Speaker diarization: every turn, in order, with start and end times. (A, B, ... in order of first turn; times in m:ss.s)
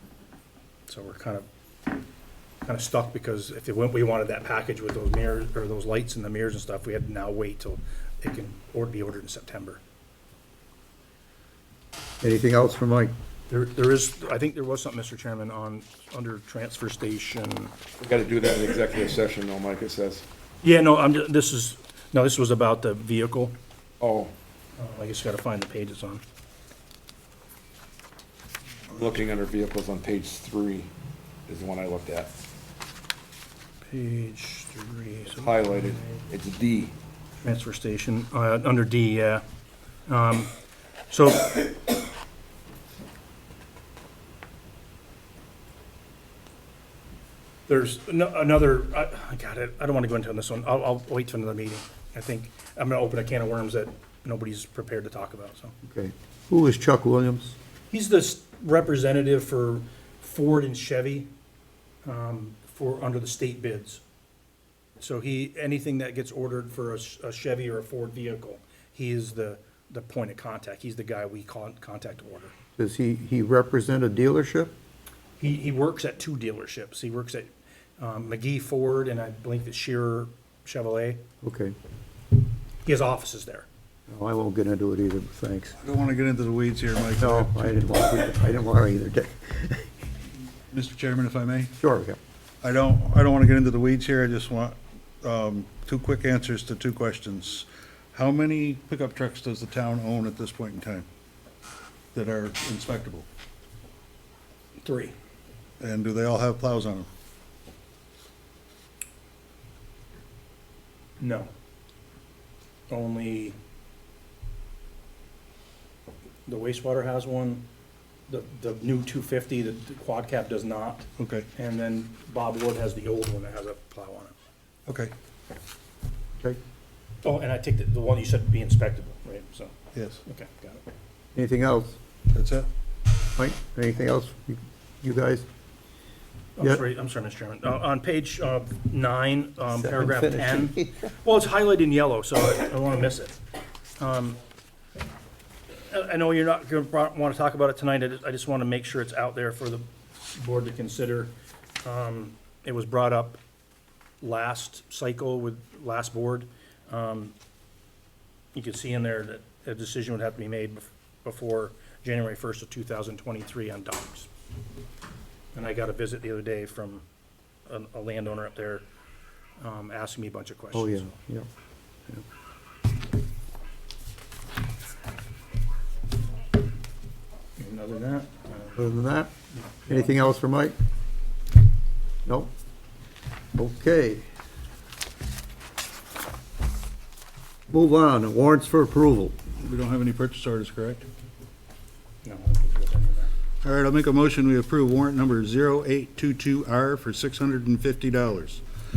0:00.9-0:01.5 A
0:02.6-0:09.8 A
0:12.2-0:13.1 B
0:13.5-0:17.7 A
0:18.0-0:20.2 C
0:20.6-0:23.5 A
0:24.0-0:24.3 C
0:24.8-0:26.2 A
0:28.9-0:30.9 C
0:31.5-0:32.3 C
0:33.9-0:35.6 A
0:35.3-0:37.0 C
0:37.4-0:39.4 A
0:40.1-0:40.5 A
0:41.1-0:41.7 A
0:47.7-0:55.7 A
0:55.8-0:57.6 B
0:57.9-1:01.3 A
1:02.0-1:04.0 A
1:05.0-1:12.5 A
1:12.8-1:14.7 B
1:15.4-1:21.2 A
1:21.4-1:21.8 B
1:22.8-1:23.7 A
1:24.1-1:25.7 B
1:25.8-1:27.5 D
1:27.2-1:29.9 B
1:30.7-1:31.7 D
1:31.8-1:32.2 B
1:32.6-1:41.1 D
1:42.1-1:43.3 D
1:44.8-1:45.1 A
1:45.8-1:47.1 D
1:51.2-1:51.5 A
1:52.9-1:53.6 A
1:56.5-1:57.6 A
1:58.3-2:04.4 A
2:01.2-2:01.5 D
2:04.9-2:05.1 D
2:07.2-2:09.7 A
2:09.9-2:10.2 D
2:10.2-2:10.8 A
2:11.4-2:12.0 B
2:12.3-2:12.7 D
2:13.4-2:15.4 B
2:16.6-2:23.4 A
2:19.7-2:20.9 B
2:24.0-2:24.4 A
2:25.9-2:33.4 A
2:34.2-2:37.4 A
2:38.5-2:44.3 A
2:45.5-2:47.0 A
2:47.7-2:48.8 A
2:49.6-2:51.2 A
2:50.7-2:51.5 B
2:57.6-2:58.8 A
2:58.8-2:59.3 B
2:59.6-3:00.1 A
2:59.9-3:00.8 B
3:02.3-3:02.5 B
3:03.6-3:04.2 B
3:07.7-3:09.4 B
3:09.6-3:11.1 D
3:12.2-3:13.3 A
3:13.6-3:18.6 D